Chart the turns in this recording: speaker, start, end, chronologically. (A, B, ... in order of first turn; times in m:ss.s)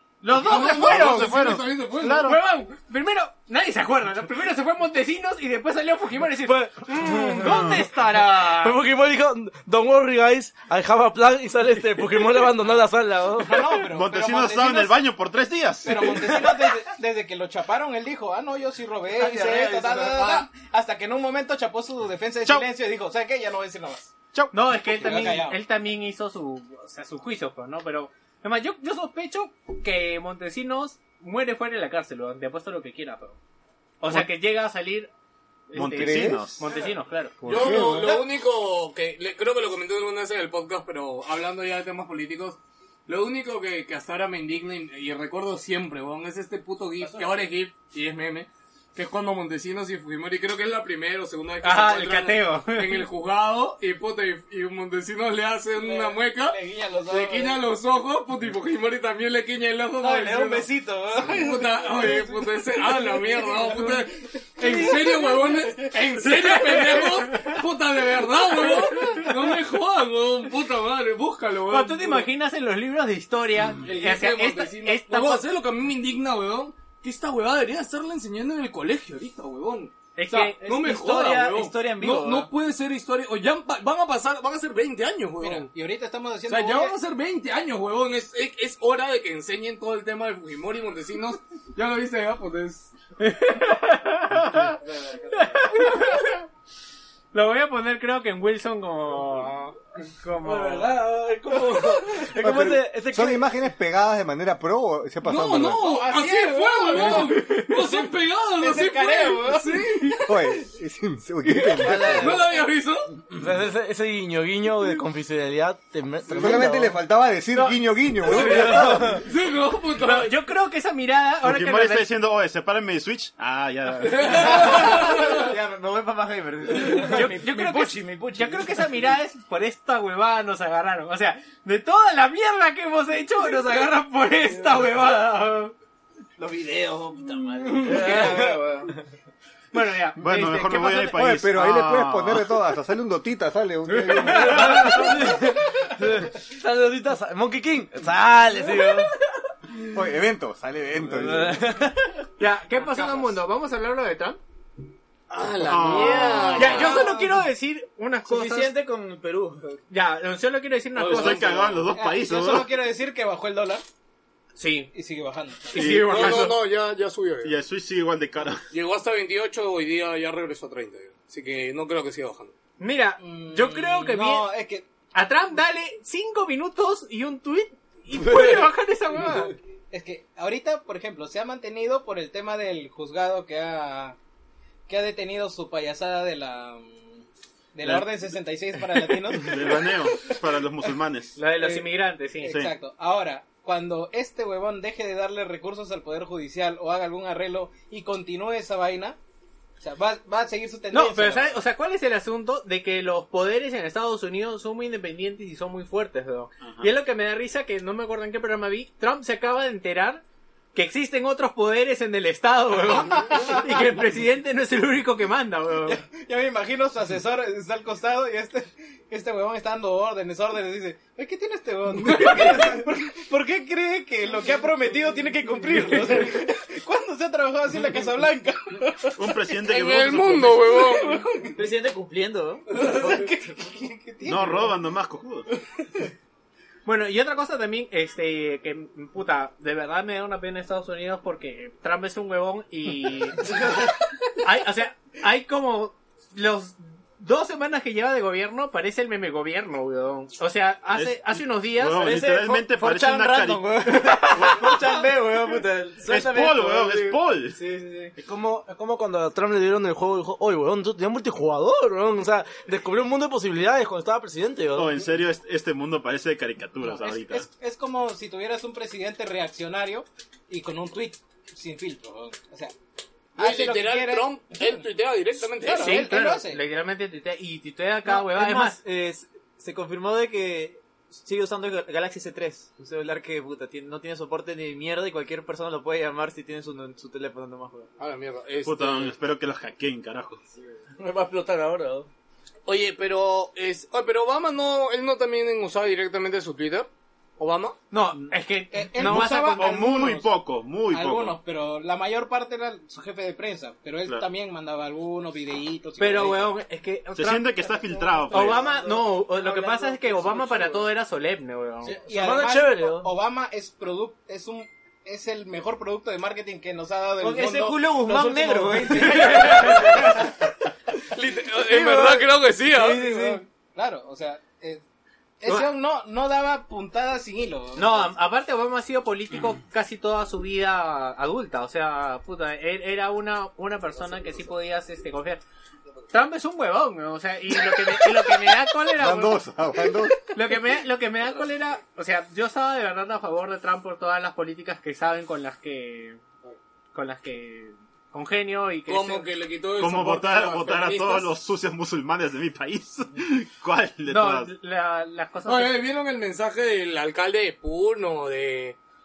0:00.2-0:08.8 A
0:00.3-0:02.4 B
0:00.5-0:02.4 C
0:06.9-0:13.6 D
0:13.4-0:15.0 E
0:13.8-0:16.5 C
0:15.8-0:24.1 E
0:19.2-0:20.3 F
0:24.5-0:33.4 A
0:24.9-0:25.6 E
0:34.0-0:35.1 A
0:35.7-0:37.8 A
0:35.7-0:36.7 C
0:35.9-0:36.5 G
0:37.4-0:38.2 G
0:37.5-1:12.3 B
0:51.6-0:53.1 A
0:55.8-0:57.6 E
1:00.0-1:04.0 E
1:04.6-1:05.1 A
1:06.1-1:07.6 A
1:08.7-1:09.4 A
1:11.7-1:15.4 A
1:13.8-1:25.7 B
1:20.2-1:20.9 A
1:20.8-1:22.5 F
1:25.4-1:27.0 E
1:26.5-1:32.9 B
1:33.2-1:34.8 A
1:35.3-1:36.4 A
1:37.3-1:41.0 A
1:40.4-1:43.4 D
1:42.4-1:45.8 G
1:45.2-1:50.4 B
1:45.8-1:47.4 E
1:47.0-1:48.0 A
1:48.6-1:50.1 E
1:50.2-1:52.4 G
1:51.8-1:52.4 D
1:51.8-1:52.4 F
1:51.8-1:53.2 B
1:53.3-1:57.0 D
1:56.3-1:59.1 G
1:57.5-1:59.2 A
1:58.3-1:58.8 D
1:58.7-1:59.2 F
1:58.9-2:00.4 B
1:59.9-2:02.1 A
2:01.4-2:04.8 C
2:04.1-2:05.4 B
2:04.6-2:07.5 F
2:06.9-2:15.7 A
2:07.0-2:08.7 E
2:16.4-2:18.8 F
2:17.7-2:18.8 A
2:17.8-2:18.6 D
2:19.7-2:21.3 A
2:20.2-2:22.5 C
2:21.1-2:24.9 G
2:24.0-2:25.3 A
2:24.2-2:29.1 D
2:28.4-2:29.1 F
2:29.9-2:31.8 G
2:31.2-2:32.1 F
2:31.4-2:31.7 D
2:32.4-2:34.4 A
2:35.3-2:37.1 B
2:35.6-2:37.0 C
2:35.8-2:37.3 F
2:36.6-2:38.8 A
2:38.3-2:39.8 F
2:39.9-2:41.7 A
2:41.0-2:41.9 B
2:41.0-2:42.7 C
2:41.9-2:43.8 E
2:44.6-2:44.9 A
2:44.9-2:45.8 E
2:45.7-2:46.6 A
2:45.8-2:46.5 C
2:46.0-2:47.6 B
2:47.4-2:48.6 C
2:48.7-2:52.6 B
2:52.8-2:54.5 A
2:53.2-2:54.9 E
2:55.1-2:59.6 A
2:59.9-3:04.2 E
3:04.9-3:07.2 E
3:07.7-3:10.3 E
3:09.3-3:11.4 C
3:11.4-3:12.6 A
3:11.6-3:11.9 E
3:12.4-3:19.2 E
3:19.8-3:21.6 E
3:20.9-3:36.0 A
3:26.6-3:26.9 C
3:35.9-3:49.3 E
3:42.1-3:42.5 B
3:49.2-3:50.8 C
3:49.6-3:51.3 B
3:50.7-3:51.6 E
3:51.5-3:53.3 F
3:52.7-3:54.8 E
3:54.2-3:55.5 C
3:56.8-4:03.9 A
4:04.4-4:12.3 A
4:10.9-4:14.8 C
4:12.0-4:18.1 F
4:16.0-4:17.6 C
4:18.2-4:25.0 D
4:24.7-4:27.5 C
4:26.8-4:32.7 E
4:33.4-4:34.8 E
4:33.4-4:36.1 B
4:35.6-4:36.6 E
4:35.7-4:38.8 A
4:38.0-4:47.9 F
4:48.0-4:49.1 B
4:48.6-4:50.4 C
4:51.0-4:52.1 D
4:52.7-4:57.8 B
4:57.9-5:00.1 A
4:58.7-5:00.3 E
4:59.0-5:01.4 C
5:00.9-5:06.5 E
5:06.0-5:07.7 A
5:07.1-5:08.7 C
5:08.3-5:11.9 A
5:08.3-5:10.8 F
5:11.8-5:20.0 E
5:11.9-5:13.1 D
5:17.2-5:20.1 F
5:19.0-5:20.0 A
5:21.1-5:23.0 B
5:21.7-5:23.4 F
5:23.1-5:24.8 E
5:25.4-5:28.1 E
5:27.8-5:35.4 A
5:36.1-5:39.5 A
5:39.0-5:40.2 G
5:40.2-5:46.2 A
5:46.9-5:49.3 A
5:48.9-5:51.3 B
5:49.8-5:54.5 C
5:54.1-5:55.8 A
5:55.4-5:58.8 B